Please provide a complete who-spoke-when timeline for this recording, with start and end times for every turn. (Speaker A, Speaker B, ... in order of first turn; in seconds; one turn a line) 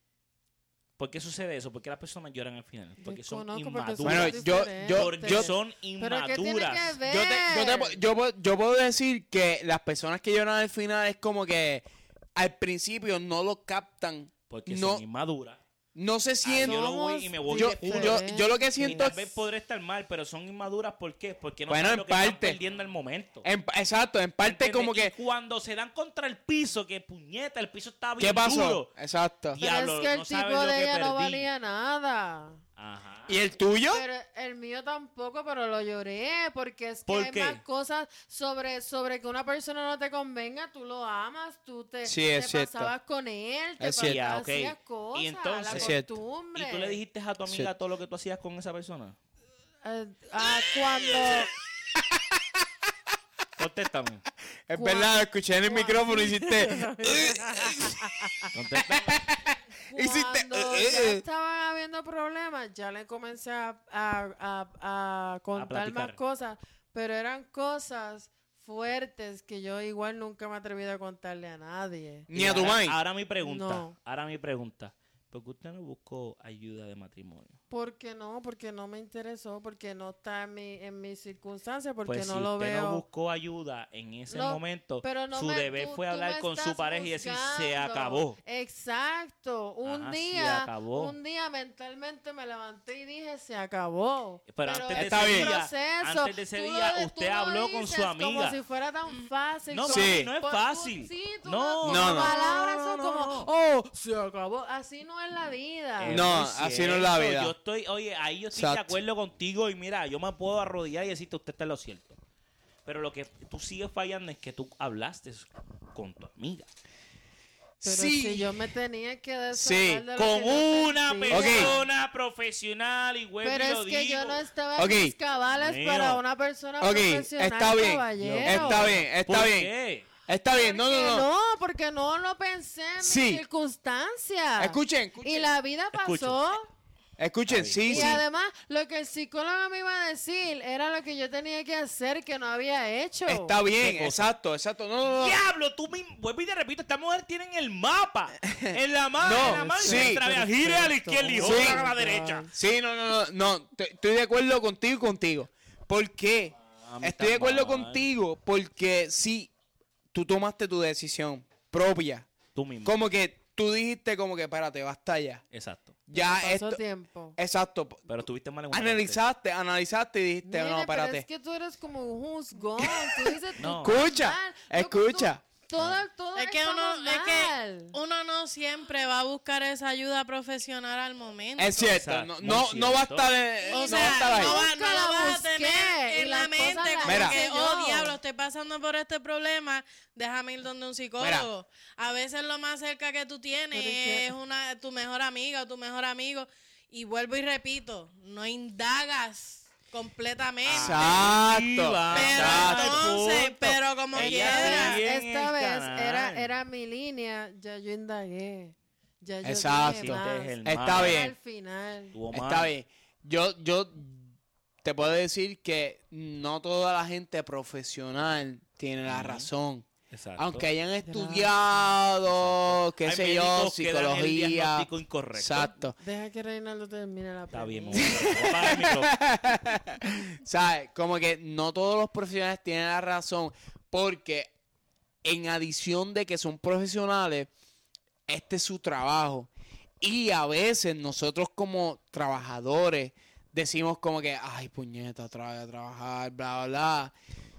Speaker A: 1.0-7.0
Speaker B: 3.0-8.0
Speaker C: 4.0-5.5
Speaker C: 7.0-11.8
Speaker C: 12.3-15.0
Speaker A: 14.5-15.6
Speaker C: 15.9-16.9
Speaker A: 16.4-23.5
Speaker B: 16.6-19.2
Speaker C: 17.5-19.2
Speaker C: 21.7-22.6
Speaker C: 23.4-25.1
Speaker A: 24.4-28.9
Speaker C: 28.2-29.6
Speaker A: 29.5-31.5
Speaker B: 29.5-32.6
Speaker A: 32.8-33.5
Speaker C: 33.3-34.0
Speaker B: 33.9-47.0
Speaker A: 37.1-37.6
Speaker C: 42.0-42.9
Speaker C: 43.8-44.4
Speaker A: 44.0-46.0
Speaker C: 45.7-46.1
Speaker A: 46.5-49.1
Speaker B: 49.8-51.5
Speaker C: 52.0-52.4
Speaker A: 53.5-54.2
Speaker C: 54.7-58.0
Speaker B: 54.7-58.5
Speaker A: 58.5-59.2
Speaker C: 58.9-61.2
Speaker B: 59.8-72.3
Speaker A: 65.5-66.2
Speaker C: 72.3-73.0
Speaker A: 72.3-77.6
Speaker B: 73.4-73.9
Speaker B: 77.7-83.0
Speaker A: 82.0-88.4
Speaker B: 84.3-106.3
Speaker A: 89.8-91.2
Speaker A: 94.5-98.6
Speaker C: 94.9-95.5
Speaker A: 99.7-103.5
Speaker C: 99.9-100.3
Speaker C: 101.8-102.3
Speaker A: 106.0-112.2
Speaker C: 106.1-107.5
Speaker C: 108.5-109.0
Speaker A: 112.8-116.7
Speaker B: 117.8-121.8
Speaker C: 117.8-118.5
Speaker C: 119.5-120.0
Speaker A: 120.1-124.4
Speaker C: 121.3-121.7
Speaker B: 123.4-129.0
Speaker C: 124.8-125.1
Speaker A: 125.5-126.2
Speaker C: 126.8-129.7
Speaker A: 128.2-130.1
Speaker C: 130.3-131.3
Speaker B: 130.5-136.7
Speaker C: 133.0-133.4
Speaker C: 134.6-135.4
Speaker A: 135.9-136.4
Speaker C: 137.2-138.2
Speaker A: 137.5-138.2
Speaker B: 137.8-143.6
Speaker C: 143.3-145.4
Speaker A: 143.8-144.3
Speaker A: 145.1-152.5
Speaker C: 148.4-150.2
Speaker B: 149.3-152.5
Speaker C: 151.4-151.9
Speaker C: 152.5-159.5
Speaker A: 156.8-158.0
Speaker C: 160.1-162.3
Speaker A: 162.5-162.9
Speaker C: 162.8-165.4
Speaker A: 165.5-166.0
Speaker C: 166.1-166.8
Speaker B: 166.1-167.4
Speaker C: 167.4-168.1
Speaker A: 168.1-169.2
Speaker C: 168.7-171.2
Speaker B: 170.4-177.9
Speaker C: 172.8-175.4
Speaker A: 173.6-174.0
Speaker D: 176.3-181.8
Speaker C: 181.6-184.6
Speaker A: 181.7-183.3
Speaker B: 183.6-188.2
Speaker D: 183.7-201.3
Speaker C: 187.0-187.4
Speaker C: 191.2-191.5
Speaker B: 193.7-194.3
Speaker A: 200.7-206.5
Speaker C: 200.7-203.2
Speaker D: 202.1-205.0
Speaker B: 204.1-212.2
Speaker C: 209.4-211.3
Speaker A: 209.8-211.3
Speaker A: 212.1-212.7
Speaker C: 212.3-226.0
Speaker A: 219.1-219.5
Speaker A: 220.1-220.7
Speaker B: 221.0-222.0
Speaker A: 222.2-225.7
Speaker B: 226.0-228.7
Speaker A: 227.5-229.2
Speaker C: 228.0-234.5
Speaker C: 235.2-237.5
Speaker C: 238.3-239.5
Speaker C: 240.0-247.1